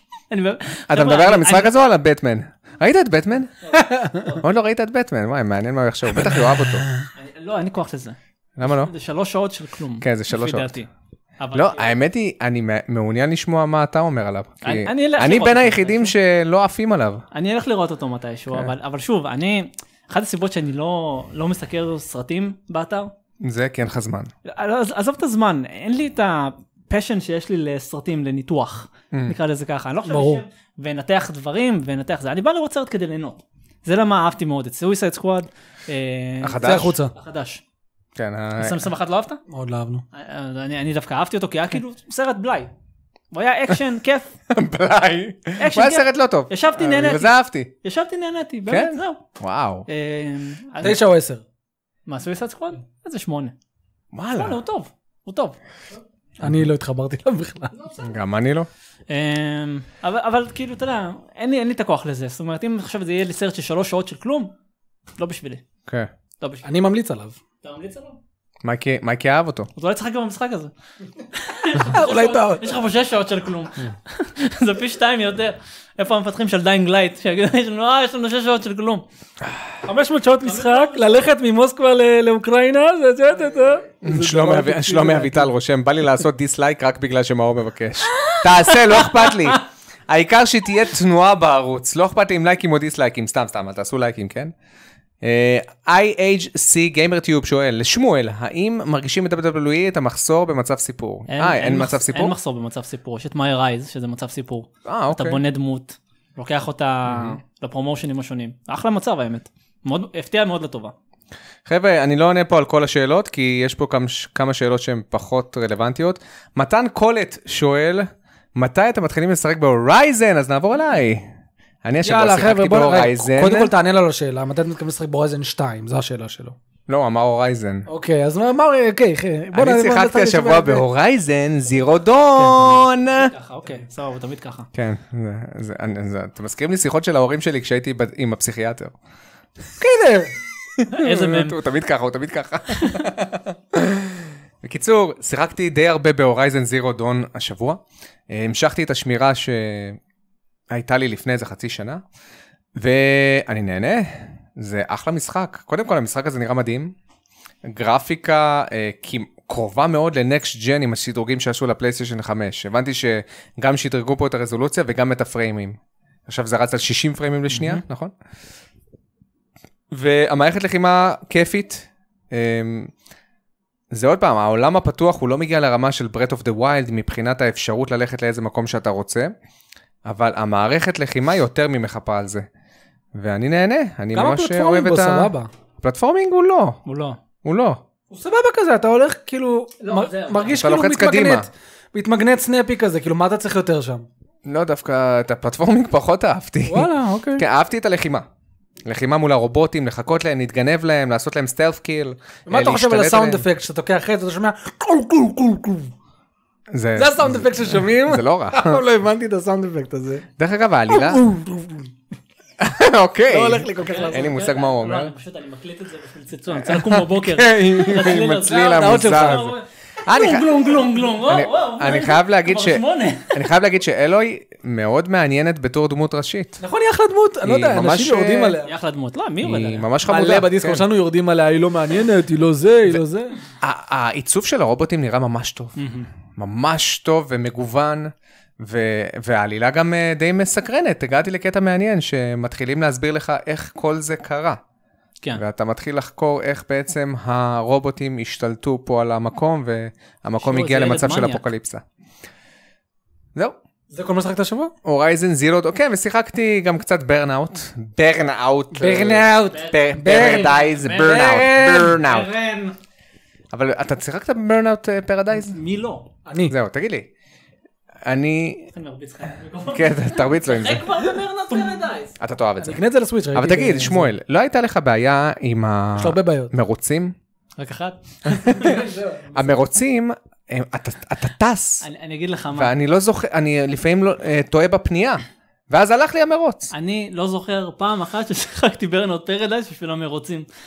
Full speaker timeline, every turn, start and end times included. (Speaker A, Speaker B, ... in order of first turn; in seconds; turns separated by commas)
Speaker A: 0.3-1.7, Speaker B: 0.9-3.5, Speaker A: 3.6-4.4, Speaker C: 3.7-4.2, Speaker B: 4.4-6.9, Speaker A: 7.1-10.9, Speaker B: 8.6-8.9, Speaker B: 10.0-10.7, Speaker A: 11.4-11.9, Speaker B: 11.5-17.2, Speaker A: 14.6-16.1, Speaker A: 17.3-23.1, Speaker B: 23.4-24.3, Speaker A: 24.4-37.6, Speaker C: 30.1-30.4, Speaker B: 36.4-37.0, Speaker C: 36.6-37.1, Speaker B: 38.2-38.9, Speaker A: 38.6-39.4, Speaker C: 39.5-40.0, Speaker A: 40.1-42.7, Speaker A: 43.3-44.3, Speaker B: 44.5-47.7, Speaker A: 45.6-49.2, Speaker B: 48.7-49.9, Speaker A: 49.9-51.0, Speaker C: 50.8-51.4, Speaker A: 52.1-53.5, Speaker B: 54.1-54.6, Speaker A: 54.4-55.6, Speaker C: 56.4-57.7, Speaker A: 57.8-58.2, Speaker B: 58.0-58.7, Speaker A: 59.1-64.5, Speaker A: 65.2-65.6, Speaker A: 66.4-66.7, Speaker C: 66.6-67.4, Speaker A: 67.6-68.2, Speaker B: 68.6-69.7, Speaker A: 69.8-70.7, Speaker A: 71.3-79.0, Speaker C: 71.9-72.7, Speaker C: 79.8-85.5, Speaker A: 80.4-81.3, Speaker B: 84.0-94.5, Speaker A: 88.1-89.6, Speaker B: 95.2-102.3, Speaker A: 101.3-110.9, Speaker B: 104.9-105.4, Speaker B: 107.1-107.4, Speaker B: 111.7-121.3, Speaker B: 121.8-123.7, Speaker C: 122.0-126.6, Speaker B: 126.9-127.9, Speaker C: 127.9-130.8, Speaker B: 129.5-133.3, Speaker A: 132.4-134.7, Speaker B: 134.7-138.9, Speaker C: 139.8-140.3, Speaker B: 140.8-150.0, Speaker A: 140.9-141.6, Speaker A: 142.8-143.1, Speaker B: 150.7-152.0, Speaker B: 152.8-156.9, Speaker B: 157.7-168.1, Speaker A: 167.5-167.8, Speaker B: 169.9-172.9, Speaker B: 173.9-179.3, Speaker B: 180.1-182.5, Speaker B: 183.2-186.8, Speaker C: 184.1-185.5, Speaker A: 186.8-187.2, Speaker B: 187.4-187.8, Speaker C: 188.1-194.1, Speaker A: 189.8-190.7, Speaker B: 190.5-191.5, Speaker B: 194.5-198.3, Speaker C: 196.7-197.5, Speaker B: 198.8-203.4, Speaker C: 202.5-205.9, Speaker B: 206.7-208.8, Speaker C: 206.9-210.3, Speaker B: 210.4-211.2, Speaker C: 210.9-211.9, Speaker B: 212.6-215.1, Speaker C: 213.3-214.3, Speaker A: 213.8-223.5, Speaker B: 216.5-220.6, Speaker C: 218.4-219.5, Speaker B: 221.2-226.6, Speaker C: 226.6-228.7, Speaker B: 227.4-228.6, Speaker A: 228.6-229.9, Speaker B: 229.4-230.8, Speaker C: 230.1-233.4, Speaker B: 233.6-235.8, Speaker A: 235.8-236.1, Speaker B: 236.4-244.6, Speaker B: 245.3-251.8, Speaker A: 250.4-251.4, Speaker C: 253.9-254.7, Speaker B: 254.8-262.3, Speaker C: 258.7-262.0, Speaker A: 259.5-262.8, Speaker B: 263.5-265.6, Speaker A: 265.3-266.1, Speaker C: 266.3-266.5, Speaker B: 266.5-267.1, Speaker B: 268.0-268.7, Speaker A: 268.7-272.1, Speaker B: 269.7-270.9, Speaker B: 272.2-272.8, Speaker C: 272.6-274.1, Speaker B: 273.3-277.1, Speaker C: 276.0-276.5, Speaker A: 277.6-278.9, Speaker B: 278.3-278.7, Speaker C: 278.4-279.6, Speaker B: 279.3-281.9, Speaker A: 281.8-282.7, Speaker B: 282.5-286.7, Speaker A: 286.7-290.5